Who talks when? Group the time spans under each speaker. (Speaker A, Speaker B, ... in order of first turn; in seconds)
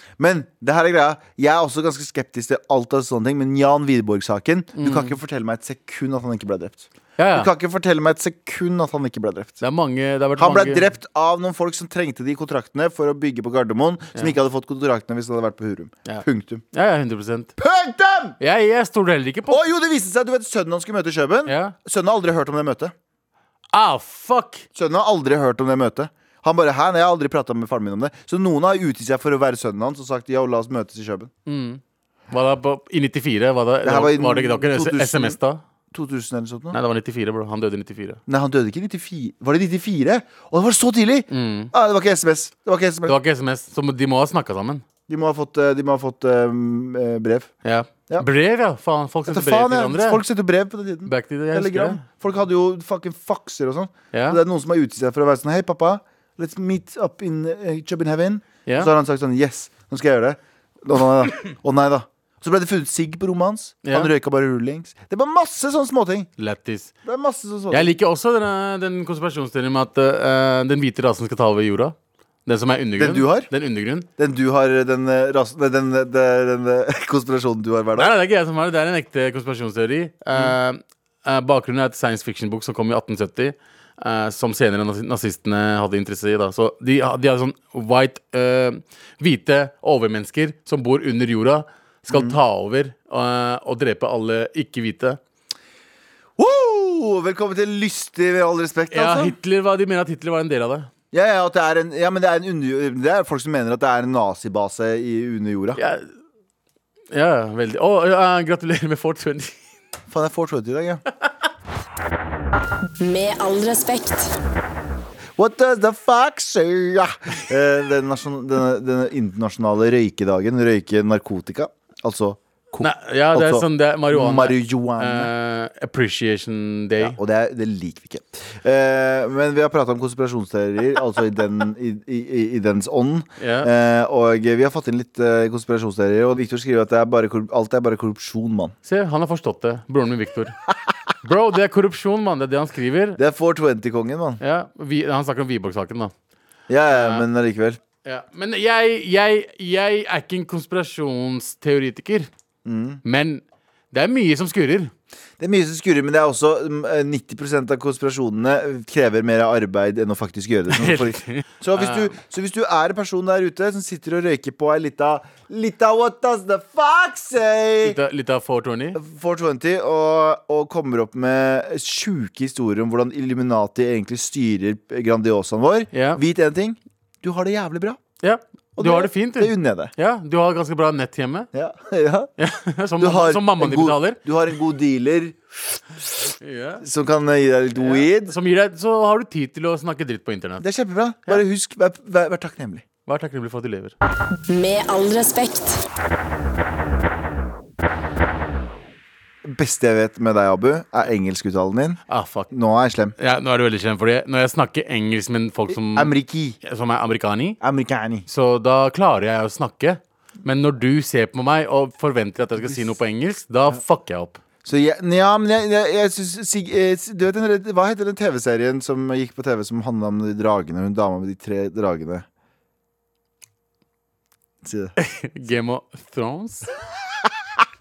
Speaker A: 0.2-9.6, 10.4-16.6, 17.6-18.4, 19.5-22.9, 24.7-31.3, 33.8-35.4, 35.9-36.8, 38.3-43.1, 45.1-47.5, 49.3-66.3, 67.0-67.9, 73.0-73.5, 74.2-78.1, 92.1-92.4, 96.4-99.3, 101.1-105.8, 110.1-111.0, 115.4-125.3, 127.0-138.7, 143.2-144.4, 146.7-147.8, 152.6-153.0, 155.4-168.0, 168.9-178.0, 178.8-179.9, 181.5-182.3, 183.0-185.8, 186.8-188.3, 190.6-192.8, 199.4-203.1, 205.7-206.6, 207.6-208.2, 214.6-222.2, 224.6-224.9
Speaker B: 4.7-5.1, 7.2-7.5, 9.6-10.9, 16.1-17.5, 18.4-19.6, 21.4-21.7, 23.7-24.6, 31.4-35.6, 36.7-38.2, 41.3-41.7, 43.0-44.8, 47.6-50.2, 51.0-52.0, 54.1-54.4, 58.6-58.9, 63.8-64.1, 66.4-66.9, 67.7-74.1, 77.9-95.2, 98.9-100.9, 105.8-106.1, 107.1-109.6, 122.8-127.2, 133.4-133.7, 138.8-140.6, 141.2-143.2, 144.4-146.1, 146.9-147.2, 148.0-152.3, 153.0-154.9, 160.7-162.1, 167.8-169.0, 175.9-176.2, 178.2-181.5, 182.4-184.2, 186.4-186.8, 187.8-190.6, 193.1-193.9, 202.1-202.5, 203.2-207.6, 208.3-214.4, 225.0-226.7
Speaker C: 113.0-114.3, 194.5-195.8